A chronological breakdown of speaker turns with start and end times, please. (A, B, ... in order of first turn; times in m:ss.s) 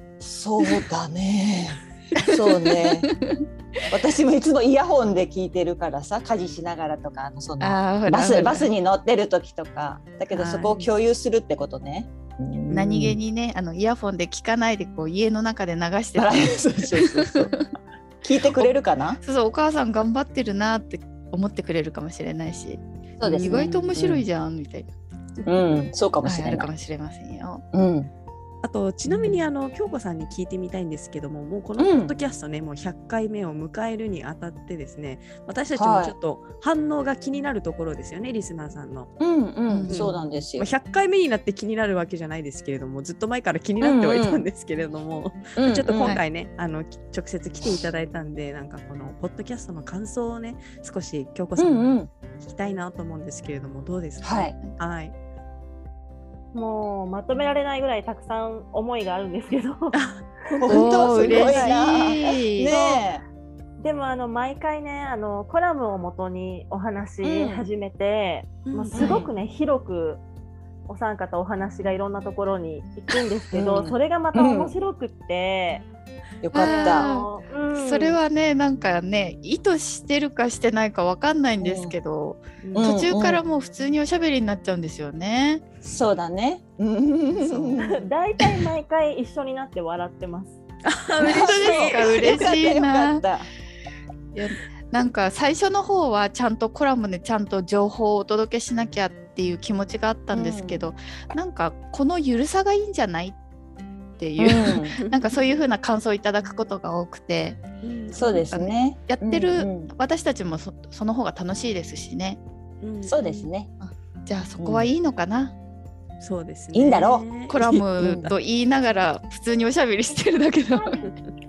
0:00.2-0:03.1 A
0:02.2-0:03.4 B
0:03.9-0:13.2 A
0:07.6-0:08.7 B
0:10.3-0:10.9 C
0:12.7-0:17.7 B
0:16.2-0:17.5 A
0:18.2-0:19.2 A
0:19.2-0:24.9 B
0:23.2-0:24.2 A
0:23.2-0:23.9 C
0:25.4-0:26.7 A
0:26.2-0:27.6 B
0:27.7-0:28.1 A
0:28.6-0:39.1 C
0:31.8-0:32.1 A
0:35.7-0:36.1 A
0:39.2-0:40.7 A
0:39.7-0:40.1 B
0:39.9-0:55.1 C
0:43.8-0:44.4 A
0:45.6-0:46.2 A
0:51.6-0:52.1 A
0:54.2-0:54.5 A
0:56.5-1:00.0 D
0:59.9-1:01.8 C
1:00.6-1:03.2 A
1:00.7-1:02.7 B
1:02.6-1:03.1 D
1:03.8-1:10.2 D
1:07.2-1:07.7 A
1:08.6-1:09.2 C
1:08.9-1:09.3 A
1:10.9-1:15.9 D
1:13.5-1:14.7 A
1:16.4-1:17.1 A
1:16.5-1:18.2 D
1:16.5-1:25.6 B
1:21.6-1:22.0 A
1:22.6-1:22.9 C
1:22.7-1:23.4 A
1:25.8-1:28.0 A
1:27.9-1:30.6 D
1:30.8-1:32.4 C
1:31.2-1:33.5 A
1:31.3-1:33.2 B
1:34.3-1:43.4 B
1:40.3-1:40.8 A
1:44.2-1:47.6 B
1:44.4-1:45.0 A
1:45.0-1:45.3 C
1:47.8-1:48.5 C
1:48.1-1:49.9 A
1:48.5-1:52.4 B
1:52.8-1:53.5 C
1:53.0-1:53.7 A
1:53.8-1:55.5 B
1:54.6-1:54.9 A
1:56.2-1:57.8 C
1:56.7-1:57.2 A
1:57.5-2:01.1 B
1:58.0-1:58.3 A